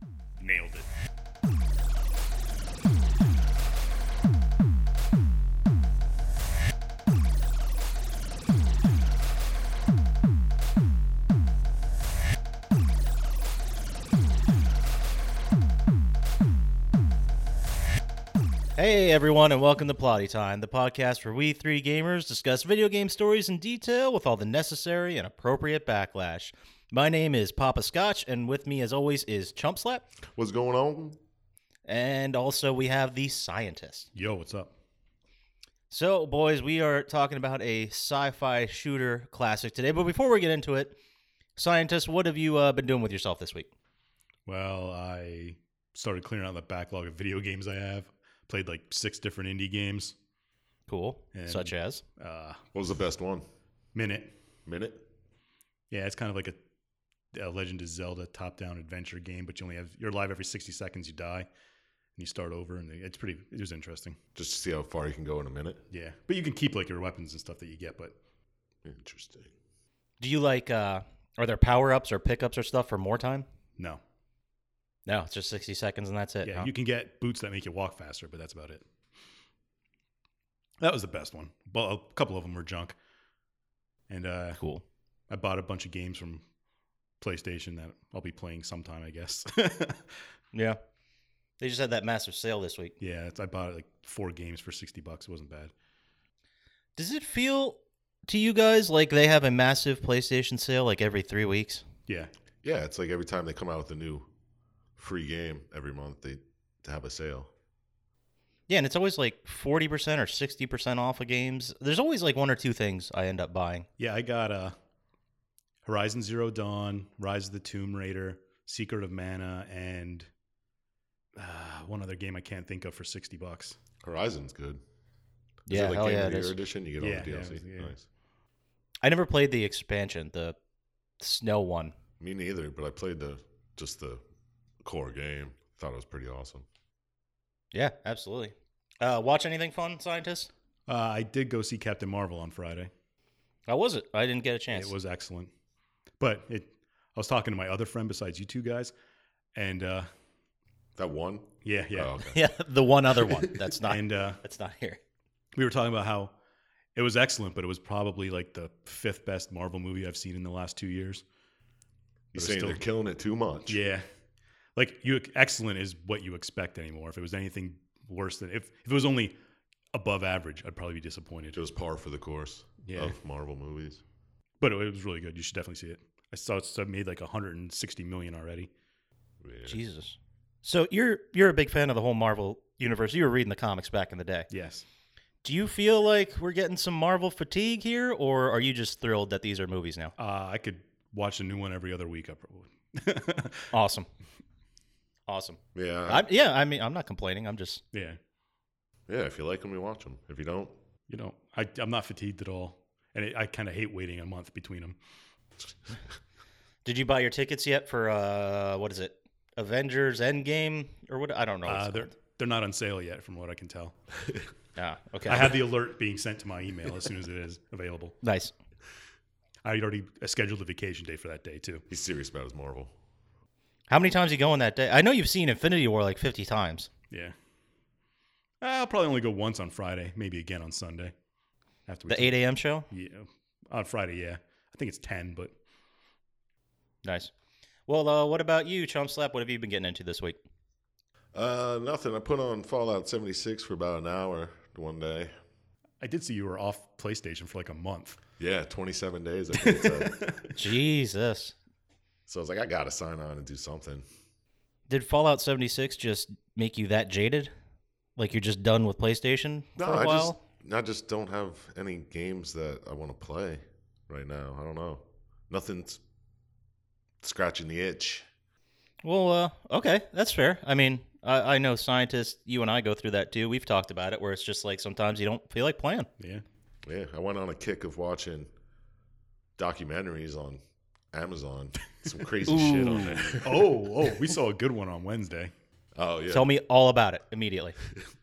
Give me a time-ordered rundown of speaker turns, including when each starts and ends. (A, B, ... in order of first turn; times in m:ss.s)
0:00.4-0:00.9 A
0:18.8-0:30.1 B
0:30.2-0:31.2 C
0:31.9-0:34.1 B
0:34.2-0:34.7 A
0:35.9-0:41.0 B
0:41.6-0:43.7 B
0:44.5-0:50.2 A
0:50.9-0:52.0 B
0:51.3-0:52.6 A
0:52.7-0:53.4 C
0:54.0-0:54.4 A
0:54.7-0:55.1 C
0:55.9-0:56.6 A
0:57.3-1:01.5 A
1:02.2-1:04.2 A
1:04.4-1:05.8 C
1:05.9-1:08.2 A
1:08.8-1:09.5 C
1:10.2-1:13.5 B
1:15.1-1:16.7 B
1:16.4-1:18.9 A
1:20.8-1:23.0 A
1:24.1-1:24.6 A
1:24.6-1:24.8 B
1:25.3-1:26.4 A
1:27.2-1:30.1 A
1:30.5-1:30.8 B
1:31.6-1:33.0 B
1:33.0-1:35.7 A
1:37.0-1:41.8 B
1:42.6-1:44.3 C
1:45.0-1:47.5 C
1:48.7-1:53.9 B
1:54.0-1:54.8 A
1:55.9-2:00.3 A
2:01.4-2:03.8 A
2:04.0-2:04.8 C
2:05.7-2:08.0 C
2:05.7-2:06.6 B
2:07.0-2:07.9 A
2:09.0-2:10.6 B
2:11.2-2:11.9 B
2:12.2-2:14.2 C
2:14.8-2:16.7 C
2:17.7-2:20.5 B
2:20.9-2:22.9 A
2:23.7-2:24.9 B
2:24.7-2:25.5 A
2:26.2-2:28.9 A
2:29.6-2:30.1 A
2:31.0-2:32.4 C
2:31.6-2:32.2 A
2:32.3-2:35.0 B
2:33.3-2:33.6 C
2:33.9-2:34.4 A
2:35.6-2:36.3 A
2:37.0-2:41.2 A
2:42.3-2:43.8 C
2:42.4-2:42.8 A
2:43.7-2:44.0 A
2:44.8-2:49.4 A
2:49.9-2:51.6 A
2:51.5-2:54.0 C
2:52.8-2:53.2 A
2:54.6-2:58.7 A
2:59.4-2:59.8 C
2:59.7-3:04.5 B
3:04.5-3:04.8 A
3:05.4-3:10.1 B
3:10.2-3:13.7 A
3:13.7-3:14.1 B
3:15.3-3:17.8 B
3:15.8-3:16.3 C
3:17.9-3:18.2 A
3:19.1-3:20.8 C
3:21.1-3:25.0 A
3:26.8-3:32.1 B
3:31.6-3:34.0 A
3:34.8-3:35.6 B
3:35.3-3:38.2 A
3:38.2-3:38.5 B
3:39.6-3:41.8 A
3:41.9-3:42.9 C
3:43.9-3:46.9 B
3:48.6-3:51.1 A
3:51.9-3:55.6 A
3:52.1-3:52.9 B
3:57.0-3:57.3 B
3:57.9-4:00.4 B
4:01.3-4:05.3 C
4:06.0-4:08.2 A
4:08.4-4:10.3 C
4:09.6-4:10.6 A
4:10.6-4:11.6 B
4:12.3-4:14.0 C
4:14.9-4:17.5 B
4:18.2-4:20.4 B
4:19.8-4:26.0 C
4:27.2-4:28.3 C
4:29.0-4:36.1 B
4:36.2-4:36.4 A
4:36.9-4:38.5 C
4:39.6-4:40.6 C
4:41.1-4:43.7 C
4:42.5-4:43.4 B
4:43.4-4:45.5 A
4:46.0-4:46.5 C
4:46.3-4:47.8 B